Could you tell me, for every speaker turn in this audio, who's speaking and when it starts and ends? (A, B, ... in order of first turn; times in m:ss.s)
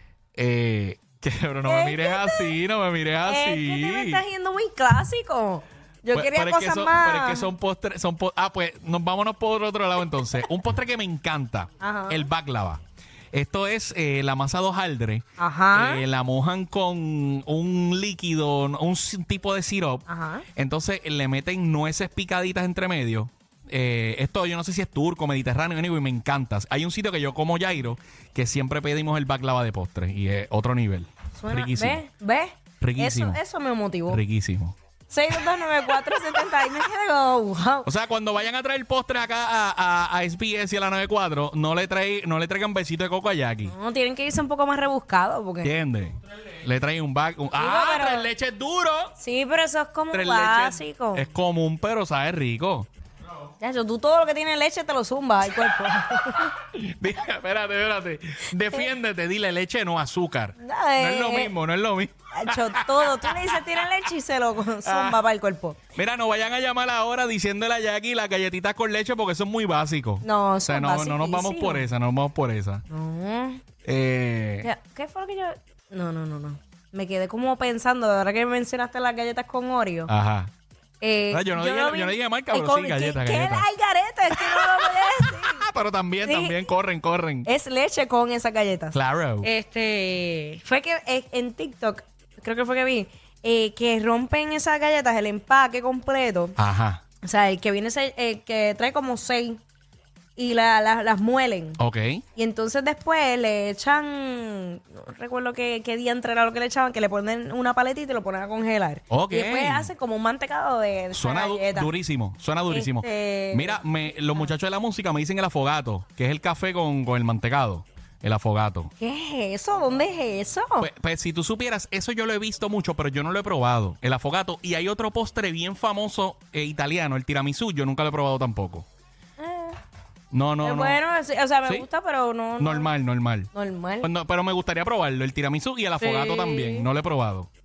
0:00.4-0:04.2 A
0:01.6-0:02.6 B
0:03.2-0:07.5 B
0:06.1-0:32.0 A
0:11.8-0:12.3 B
0:15.4-0:16.0 B
0:20.1-0:20.4 B
0:31.4-0:34.2 B
0:32.8-0:33.4 A
0:34.1-0:34.7 A
0:35.1-0:37.9 B
0:37.8-0:43.7 A
0:43.7-0:45.7 B
0:45.6-0:49.1 A
0:47.5-0:48.3 B
0:49.2-0:51.3 B
0:50.1-0:52.9 A
0:53.6-0:56.6 B
0:56.6-1:03.6 A
1:00.6-1:01.5 B
1:02.3-1:05.8 B
1:04.8-1:05.2 A
1:05.9-1:12.8 A
1:10.2-1:11.9 B
1:12.9-1:13.6 B
1:13.8-1:14.7 A
1:14.6-1:20.1 B
1:20.1-1:20.5 A
1:21.0-1:25.7 B
1:21.3-1:23.6 A
1:24.3-1:27.5 A
1:26.2-1:26.6 B
1:27.4-1:36.6 B
1:28.9-1:29.5 A
1:36.6-1:37.0 A
1:37.2-1:39.6 B
1:40.4-1:41.8 B
1:41.8-1:42.2 A
1:42.3-1:51.9 B
1:49.1-1:49.9 A
1:51.1-1:58.9 A
1:52.7-1:53.8 B
1:59.0-2:00.9 B
2:00.8-2:08.8 A
2:09.4-2:09.8 B
2:10.3-2:11.0 A
2:10.6-2:12.9 B
2:12.6-2:13.5 A
2:13.5-2:14.1 B
2:14.0-2:17.5 A
2:16.0-2:16.9 B